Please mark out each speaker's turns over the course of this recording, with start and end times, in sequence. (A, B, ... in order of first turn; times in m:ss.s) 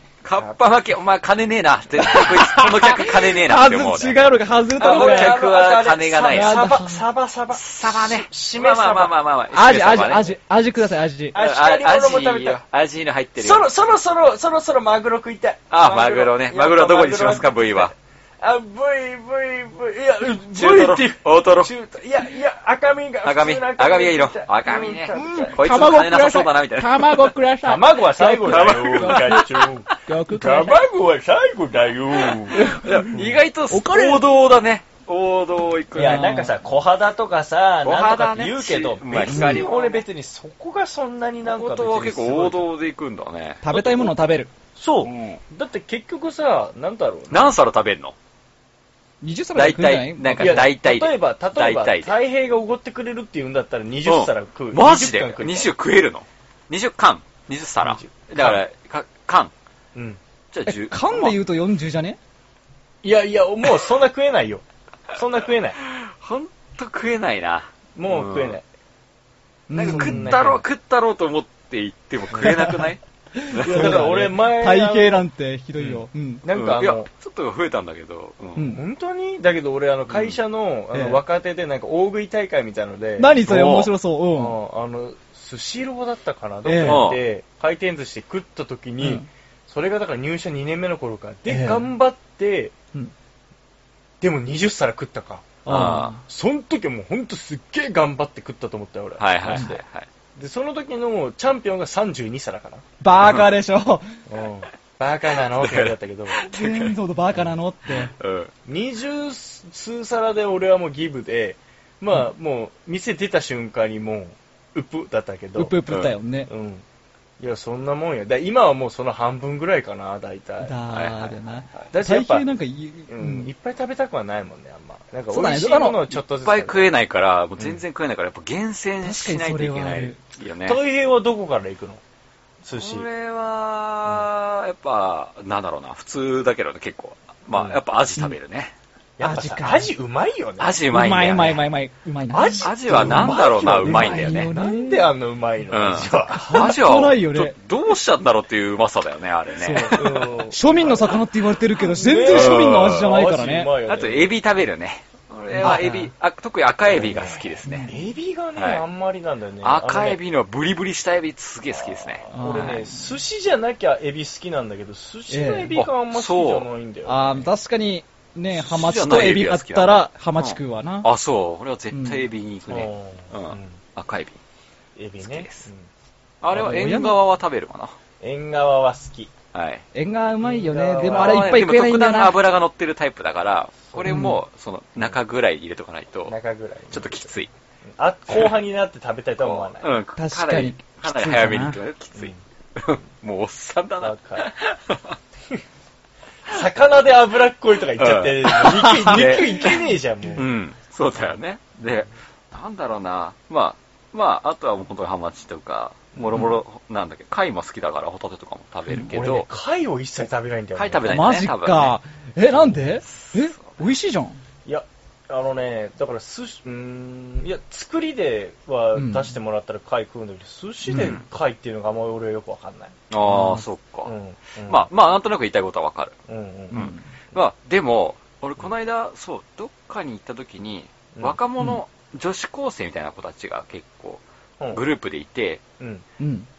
0:00.2-0:04.2 A
0:00.3-0:00.6 B
0:02.0-0:05.4 C
0:04.8-0:09.1 B
0:04.8-0:06.7 A
0:06.3-0:07.0 C
0:07.5-0:10.4 A
0:09.5-0:11.3 C
0:11.3-0:12.6 B
0:11.3-0:13.6 A
0:13.4-0:25.6 B
0:15.7-0:17.9 A
0:20.5-0:21.7 A
0:23.2-0:27.3 A
0:25.1-0:30.8 C
0:27.6-0:33.3 B
0:28.4-0:29.6 A
0:32.5-0:36.3 A
0:32.5-0:33.1 C
0:33.7-0:34.3 C
0:35.9-0:36.5 C
0:35.9-0:42.6 B
0:37.8-0:40.0 A
0:39.2-0:39.7 C
0:41.4-0:44.1 A
0:43.6-0:44.5 C
0:44.8-0:47.5 B
0:45.0-0:45.4 A
0:47.3-0:48.2 A
0:49.2-0:50.7 C
0:49.5-0:52.1 A
0:50.4-0:55.7 B
0:54.0-0:59.5 A
0:57.8-0:58.6 B
1:00.5-1:01.4 A
1:00.7-1:02.2 C
1:03.0-1:05.8 B
1:05.9-1:08.6 A
1:08.0-1:08.6 B
1:09.7-1:10.4 C
1:09.7-1:14.1 A
1:09.8-1:10.6 B
1:12.3-1:12.6 B
1:12.4-1:16.4 C
1:13.6-1:15.2 B
1:15.8-1:18.7 A
1:16.4-1:17.1 B
1:18.6-1:18.8 C
1:18.7-1:23.4 B
1:20.1-1:20.4 A
1:20.9-1:21.2 C
1:23.2-1:24.6 C
1:23.4-1:23.9 A
1:24.3-1:32.7 B
1:26.6-1:27.1 C
1:26.8-1:27.2 A
1:29.0-1:29.2 C
1:31.5-1:31.8 C
1:34.2-1:39.8 B
1:35.6-1:36.2 C
1:35.7-1:36.1 A
1:39.2-1:40.1 A
1:40.4-1:42.8 B
1:43.0-1:44.1 C
1:43.2-1:43.5 A
1:44.3-1:46.4 B
1:45.5-1:46.9 A
1:46.4-1:48.1 C
1:47.9-1:48.5 A
1:48.6-1:55.7 B
1:55.6-1:56.5 C
1:56.5-1:56.8 B
1:57.4-2:00.7 B
2:00.6-2:03.5 C
2:00.9-2:01.3 A
2:01.9-2:02.5 B
2:03.1-2:06.9 B
2:05.3-2:06.0 C
2:06.1-2:10.8 A
2:09.0-2:10.2 C
2:10.6-2:12.0 B
2:12.6-2:13.1 B
2:12.7-2:18.7 A
2:17.5-2:17.8 B
2:19.2-2:20.8 B
2:19.2-2:19.9 C
2:20.6-2:21.6 A
2:20.9-2:25.1 C
2:22.3-2:26.7 B
2:22.6-2:24.5 A
2:25.7-2:30.3 A
2:26.3-2:27.6 C
2:29.6-2:33.7 C
2:29.8-2:31.2 B
2:31.9-2:34.3 B
2:32.2-2:33.1 A
2:33.9-2:37.9 A
2:35.5-2:36.1 C
2:35.6-2:35.9 B
2:36.9-2:40.2 B
2:37.6-2:38.0 C
2:38.6-2:38.8 A
2:39.6-2:42.2 A
2:42.0-2:47.5 B
2:42.3-2:43.1 C
2:45.3-2:45.7 C
2:45.7-2:46.7 A
2:47.0-2:51.1 C
2:48.5-2:54.4 A
2:51.9-2:52.2 C
2:52.7-2:53.8 B
2:55.0-2:55.9 B
2:55.2-2:55.7 A
2:56.4-2:58.0 A
2:56.5-2:57.2 C
2:56.6-2:56.8 B
2:58.2-2:59.3 B
2:59.5-2:59.8 A
2:59.9-3:02.4 C
3:00.4-3:01.6 B
3:01.0-3:06.3 A
3:04.0-3:04.4 C
3:06.3-3:07.3 B
3:06.9-3:07.5 A
3:08.0-3:09.9 B
3:09.4-3:15.2 A
3:10.2-3:11.8 C
3:12.2-3:12.4 B
3:14.0-3:14.4 B
3:16.5-3:20.5 B
3:18.0-3:29.5 A
3:18.9-3:19.8 C
3:29.1-3:31.1 B
3:30.7-3:32.0 A
3:31.0-3:34.4 C
3:32.5-3:33.6 A
3:34.6-3:43.0 B
3:38.9-3:39.3 C
3:40.9-3:41.2 C
3:40.9-3:41.2 A
3:43.1-3:44.1 A
3:43.3-3:43.6 C
3:44.0-3:44.9 B
3:44.6-3:46.2 A
3:46.3-3:46.8 B
3:46.7-3:47.0 C
3:46.7-3:54.2 A
3:51.1-3:51.4 B
3:54.7-3:55.6 A
3:55.8-3:56.0 B
3:56.2-3:56.5 C